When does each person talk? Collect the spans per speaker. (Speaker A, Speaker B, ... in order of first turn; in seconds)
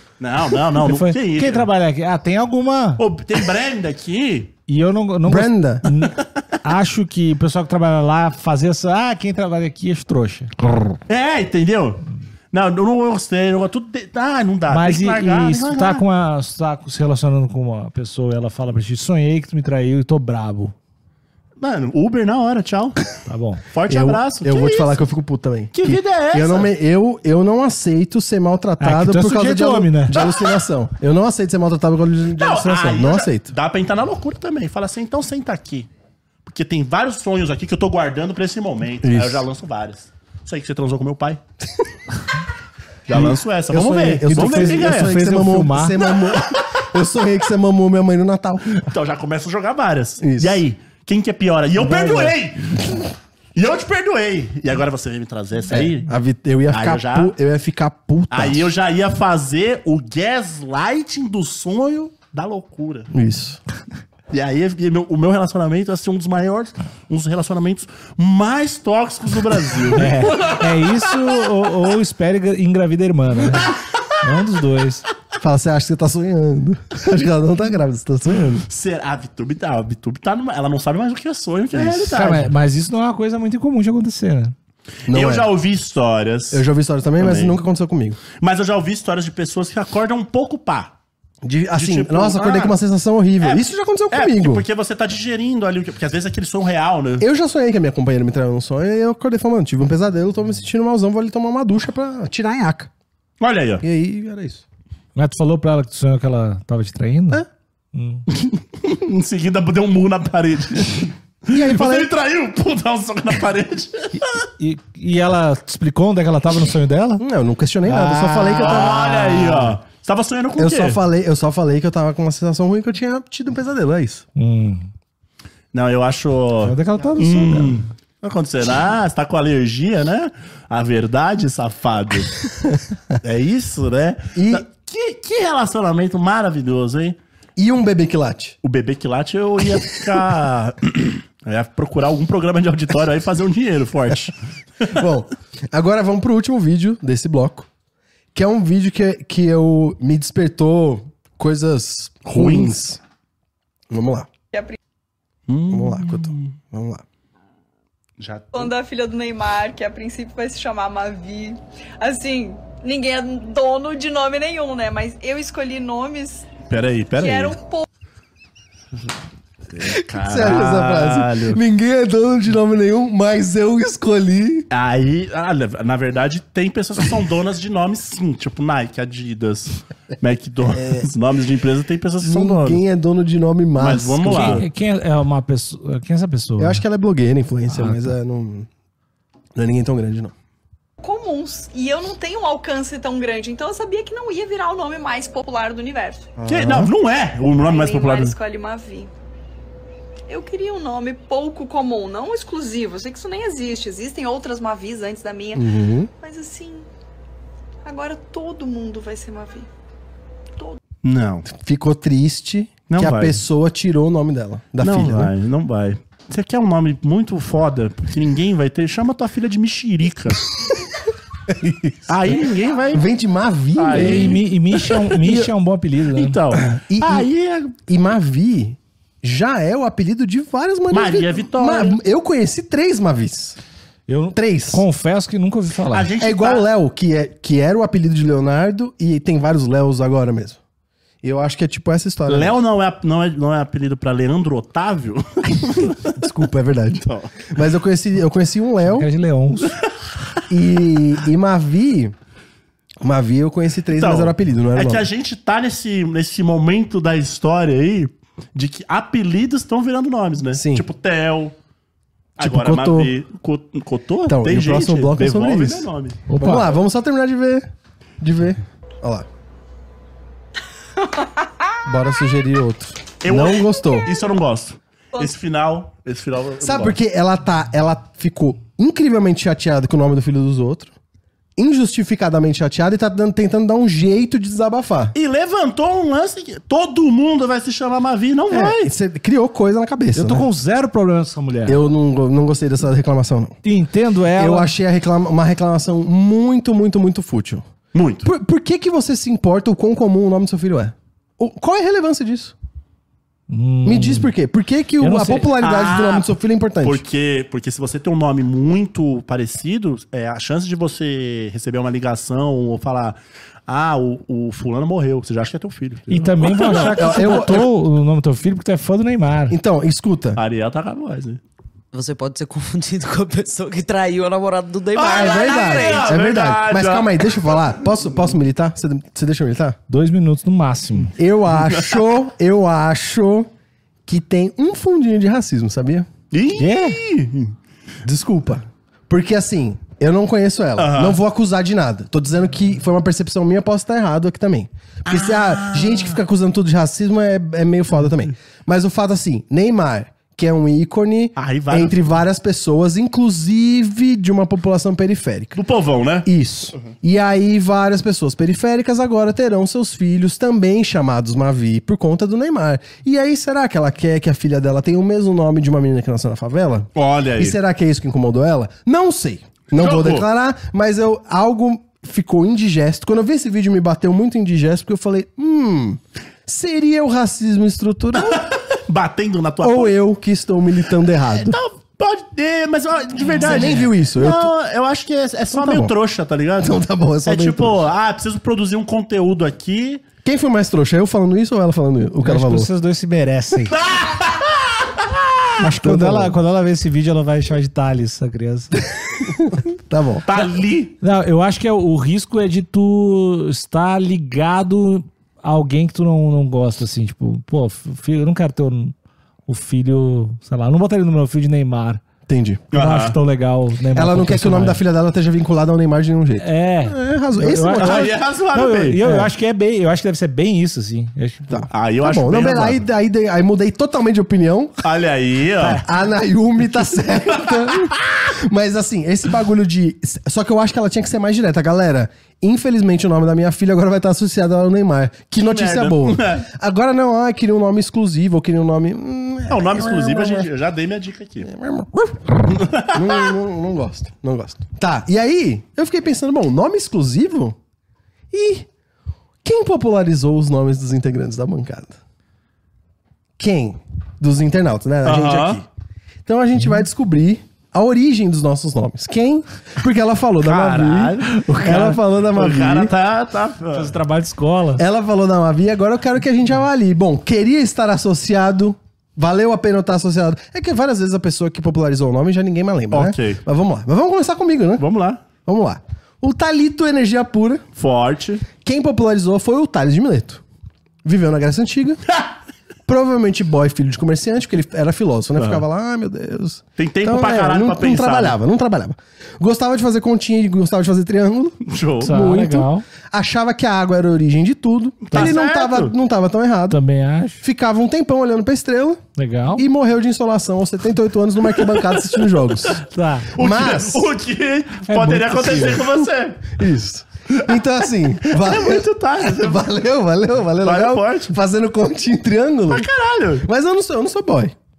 Speaker A: 0.2-1.7, 3.0-4.5, 11.1-16.0, 21.6-23.1, 23.7-25.0, 25.7-26.7, 32.4-35.9, 36.5-41.4, 43.1-45.2, 48.9-52.9, 53.5-56.1, 56.7-57.4, 58.3-63.1, 64.3-70.6, 78.7-82.5, 85.1-86.7, 87.2-87.6, 88.3-90.9, 91.8-92.8, 93.4-97.3, 103.4-103.8, 108.3-114.4, 118.5-121.0, 125.7-132.4, 133.2-137.2, 138.6-145.0, 152.3-152.8, 155.5-156.6, 158.2-158.7, 166.7-167.6, 169.7-171.6, 174.7-182.8, 183.8-184.6, 196.5-198.4, 211.0-211.5, 212.9-213.4, 214.8-220.5, 222.1-223.1, 223.8-225.3, 226.1-227.8, 230.9-232.0, 235.9-236.7, 242.3-246.2, 247.0-247.5, 253.9-261.6, 262.4-266.2, 273.2-277.0, 285.1-288.9, 297.9-298.3, 305.6-317.4, 320.4-321.4, 324.9-327.7, 331.6-332.0, 336.3-337.6, 340.8-341.2, 345.1-346.2, 351.4-352.0, 355.6-356.3, 367.0-367.6, 369.7-370.3, 378.2-380.0, 381.3-390.0, 393.7-395.4, 400.3-400.9, 412.7-413.2, 417.8-419.0, 421.7-422.8, 424.8-425.9, 427.5-427.9, 435.4-436.4, 439.5-441.5, 442.5-443.3, 455.1-455.6, 460.4-464.0, 472.9-473.4, 474.8-475.2, 477.8-478.5, 485.4-485.6, 486.8-488.4, 491.6-492.2, 495.1-495.9, 503.4-506.6, 507.3-507.6, 508.2-509.7, 510.6-511.4, 512.7-513.5
Speaker B: 0.8-3.0, 4.7-10.9, 14.7-20.8, 23.3-23.6, 28.8-30.2, 44.3-46.0, 70.0-75.0, 82.1-84.5, 105.2-108.3, 114.4-117.2, 117.9-118.8, 124.4-124.9, 126.6-127.8, 184.3-186.8, 187.7-188.1, 223.9-226.4, 234.1-236.1, 248.8-249.8, 266.3-266.7, 290.1-291.8, 293.6-294.7, 303.5-304.3, 305.0-305.5, 316.1-319.6, 329.9-331.1, 336.6-337.0, 392.2-393.8, 395.6-398.8, 401.0-408.9, 409.5-412.0, 412.7-414.8, 416.4-421.7, 463.7-464.8, 492.0-492.9, 496.7-497.4, 499.2-499.6, 502.9-503.3, 504.9-505.8
Speaker C: 5.3-5.9, 23.9-33.5, 39.0-39.5, 43.1-48.9, 50.2-50.6, 51.8-53.0, 55.7-58.7, 63.1-63.6, 75.4-78.7, 81.8-82.1, 85.1-85.5, 86.5-88.2, 91.4-94.7, 97.2-102.9, 103.8-104.6, 111.5-112.1, 117.2-119.8, 120.6-124.2, 134.3-134.7, 137.6-138.6, 144.9-147.7, 148.3-153.0, 153.9-154.3, 155.7-157.0, 169.8-174.7, 180.7-181.1, 182.2-184.7, 186.6-188.7, 189.6-190.3, 196.4-196.9, 205.6-206.1, 211.5-215.3, 221.5-222.3, 222.9-224.4, 226.6-227.3, 227.8-233.6, 234.3-234.8, 236.2-240.6, 241.2-242.6, 246.1-249.1, 250.5-252.1, 253.0-255.1, 260.5-260.9, 262.4-263.1, 264.3-267.7, 268.2-269.3, 271.9-274.1, 276.6-280.9, 281.6-285.1, 288.5-290.5, 291.7-293.6, 294.4-297.7, 298.2-302.6, 303.9-307.0, 316.6-317.7, 319.5-320.4, 325.0-329.8, 331.1-333.5, 334.1-336.1, 338.1-355.6, 356.2-378.5, 379.6-381.6, 383.4-384.5, 385.5-385.9, 386.6-387.9, 390.2-392.7, 395.6-396.4, 399.2-400.3, 412.3-412.6, 413.9-418.1, 421.5-424.8, 425.7-440.5, 441.4-447.6, 448.3-448.7, 449.4-452.0, 453.4-455.6, 456.3-462.9, 464.8-474.9, 475.4-477.6, 478.6-480.4, 481.0-482.0, 482.9-496.8, 497.4-499.0, 499.6-502.8, 503.4-504.1, 506.6-512.9, 513.4-514.5
Speaker D: 154.5-154.8, 158.5-166.5, 167.2-167.9, 191.0-196.3, 197.6-199.1, 200.3-205.7, 206.2-206.9, 207.8-209.7
Speaker E: 321.9-326.1